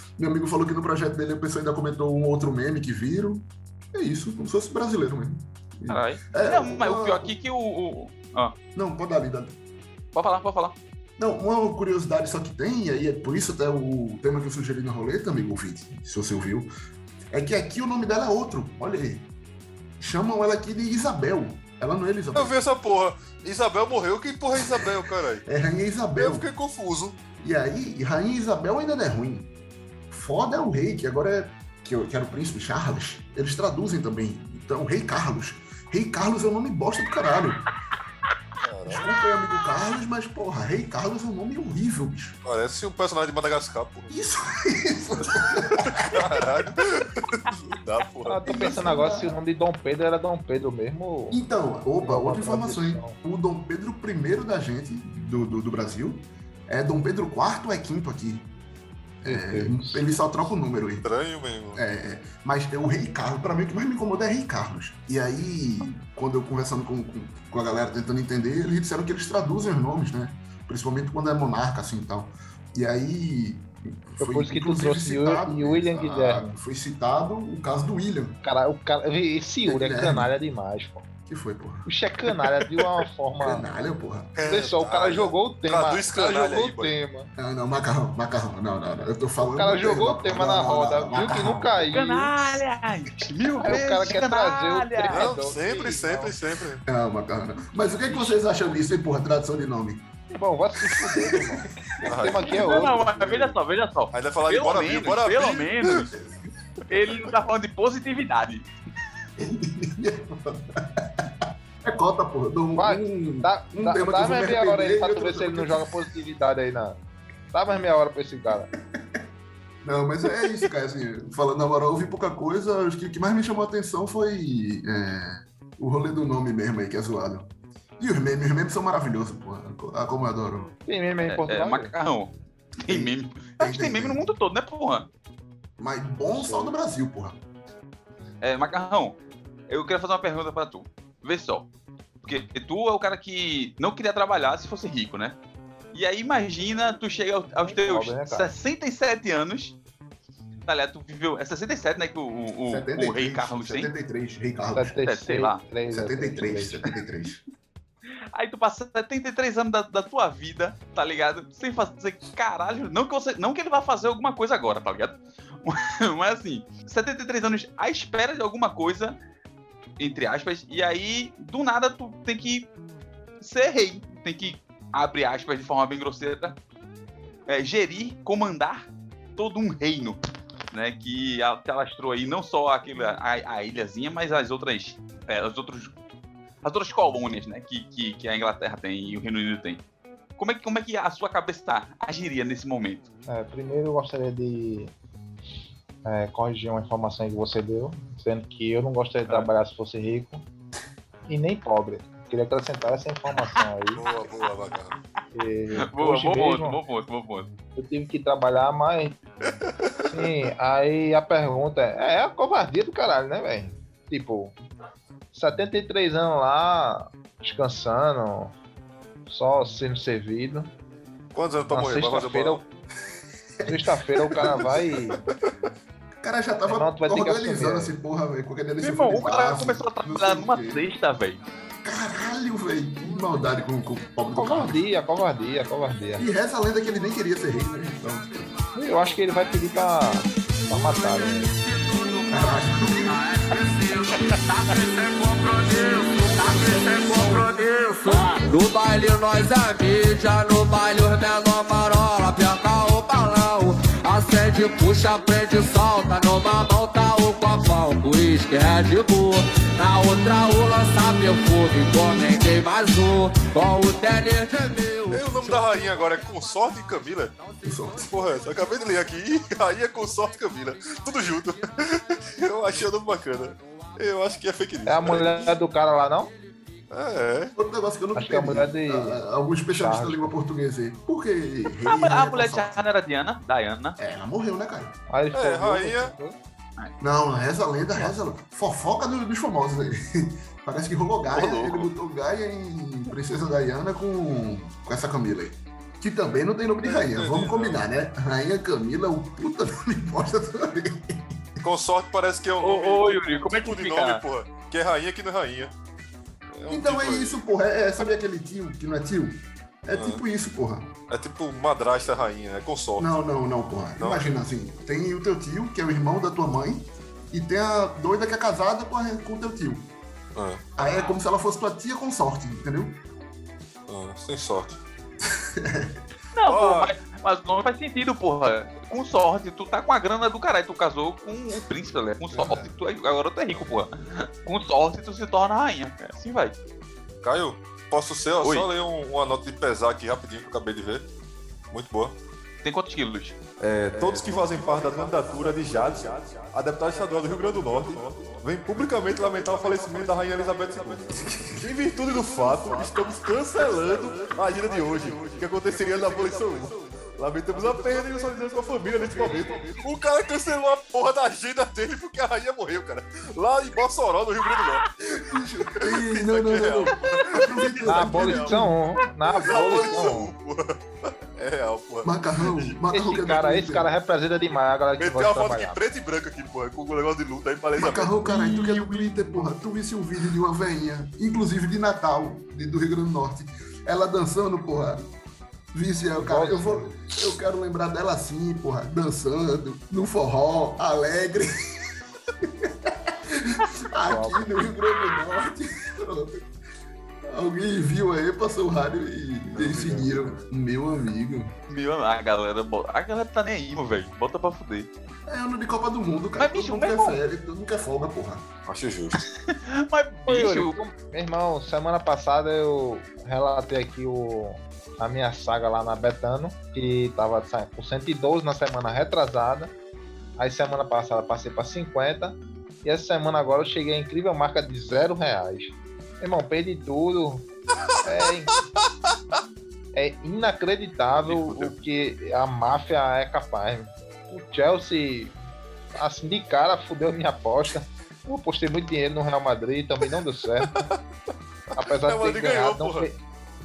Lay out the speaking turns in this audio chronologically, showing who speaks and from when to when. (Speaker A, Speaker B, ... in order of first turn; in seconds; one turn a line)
Speaker A: 0.2-7.3
Speaker B: 5.9-8.5
Speaker A: 8.7-9.6
Speaker B: 10.1-10.8
Speaker A: 11.2-16.7
Speaker A: 17.3-19.3
Speaker A: 20.0-22.5
Speaker C: 22.3-25.4
Speaker A: 24.6-24.9
Speaker A: 25.4-26.5
Speaker C: 26.2-27.2
Speaker A: 27.4-29.5
Speaker A: 30.1-37.6
Speaker C: 38.6-39.1
Speaker A: 38.9-42.4
Speaker C: 42.4-44.1
Speaker A: 44.1-46.5
Speaker C: 45.7-48.4
Speaker D: 48.2-51.4
Speaker A: 48.4-49.4
Speaker A: 51.3-58.5
Speaker D: 52.0-53.2
Speaker A: 59.2-61.0
Speaker D: 59.2-60.0
Speaker C: 61.0-61.8
Speaker A: 61.7-78.4
Speaker D: 74.2-76.5
Speaker D: 78.4-81.1
Speaker A: 79.6-80.3
Speaker A: 81.2-81.9
Speaker D: 81.8-83.7
Speaker A: 83.4-84.3
Speaker C: 84.3-87.0
Speaker D: 84.5-87.3
Speaker A: 87.4-92.0
Speaker D: 89.4-92.3
Speaker B: 91.9-95.3
Speaker D: 93.6-96.3
Speaker C: 95.1-96.8
Speaker A: 96.8-100.1
Speaker D: 98.1-98.4
Speaker D: 100.3-103.0
Speaker A: 101.1-102.9
Speaker C: 102.0-103.0
Speaker B: 102.5-106.1
Speaker C: 104.1-106.1
Speaker B: 106.9-108.7
Speaker A: 109.4-115.9
Speaker D: 112.8-117.0
Speaker D: 117.5-118.7
Speaker A: 118.9-119.2
Speaker A: 119.8-130.7
Speaker D: 130.8-131.9
Speaker B: 131.3-135.1
Speaker A: 132.9-134.2
Speaker A: 135.8-137.4
Speaker D: 136.3-136.7
Speaker B: 138.4-139.2
Speaker B: 139.7-141.7
Speaker B: 142.2-145.3
Speaker B: 145.9-149.7
Speaker D: 147.7-148.5
Speaker B: 150.7-153.9
Speaker A: 152.7-155.0
Speaker D: 154.7-156.9
Speaker B: 155.0-155.6
Speaker A: 155.9-157.4
Speaker B: 158.3-169.2
Speaker B: 170.0-172.7
Speaker B: 173.4-176.6
Speaker B: 177.5-180.2
Speaker B: 180.7-185.9
Speaker B: 186.6-189.8
Speaker B: 190.4-193.1
Speaker D: 193.3-194.9
Speaker D: 196.0-200.4
Speaker D: 201.3-204.0
Speaker C: 203.9-205.0
Speaker D: 205.3-206.8
Speaker B: 205.9-207.5
Speaker D: 207.8-209.2
Speaker C: 209.6-210.3
Speaker D: 210.1-214.5
Speaker D: 215.3-218.5
Speaker D: 219.3-220.7
Speaker C: 221.3-222.7
Speaker D: 221.7-222.6
Speaker A: 223.6-224.9
Speaker D: 223.6-225.2
Speaker A: 226.2-230.8
Speaker D: 226.7-227.9
Speaker B: 228.8-231.4
Speaker A: 231.8-234.8
Speaker D: 234.3-236.2
Speaker A: 236.2-238.5
Speaker D: 238.7-241.5
Speaker E: 240.9-265.6
Speaker A: 242.3-243.2
Speaker C: 265.1-267.4
Speaker A: 267.6-268.1
Speaker C: 268.0-275.5
Speaker D: 274.9-276.3
Speaker C: 276.9-277.5
Speaker A: 277.6-282.8
Speaker D: 278.1-280.3
Speaker B: 281.9-284.0
Speaker A: 284.0-285.0
Speaker D: 285.1-286.4
Speaker C: 285.3-286.1
Speaker A: 287.0-301.4
Speaker B: 291.3-291.9
Speaker C: 296.8-297.8
Speaker C: 301.6-305.7
Speaker B: 302.6-304.2
Speaker C: 306.5-307.4
Speaker A: 306.7-310.9
Speaker C: 309.9-310.2
Speaker C: 311.1-313.1
Speaker A: 313.0-319.9
Speaker C: 314.0-314.3
Speaker C: 320.3-320.7
Speaker A: 320.8-323.0
Speaker C: 323.9-324.8
Speaker A: 325.3-326.0
Speaker B: 326.3-336.6
Speaker C: 326.5-326.9
Speaker A: 332.3-332.7
Speaker C: 337.2-341.0
Speaker B: 338.4-338.7
Speaker C: 341.7-342.1
Speaker B: 342.6-343.4
Speaker C: 343.6-364.9
Speaker B: 344.0-344.4
Speaker A: 351.3-351.6
Speaker A: 365.2-368.8
Speaker C: 365.8-368.7
Speaker D: 367.8-370.3
Speaker C: 369.4-372.7
Speaker A: 372.0-373.9
Speaker D: 372.9-375.8
Speaker C: 375.0-378.2
Speaker A: 377.8-385.1
Speaker A: 385.7-391.5
Speaker D: 386.2-386.9
Speaker A: 392.4-396.4
Speaker D: 394.0-394.7
Speaker A: 397.2-401.6
Speaker C: 399.5-400.4
Speaker B: 401.7-404.9
Speaker A: 405.3-408.5
Speaker B: 406.4-407.2
Speaker C: 408.7-409.2
Speaker B: 409.2-410.8
Speaker D: 410.3-419.7
Speaker D: 420.4-427.5
Speaker D: 428.0-428.7
Speaker D: 429.9-435.4
Speaker C: 431.2-431.7
Speaker D: 435.9-440.8
Speaker C: 440.6-441.0
Speaker C: 441.7-443.1
Speaker D: 441.8-443.2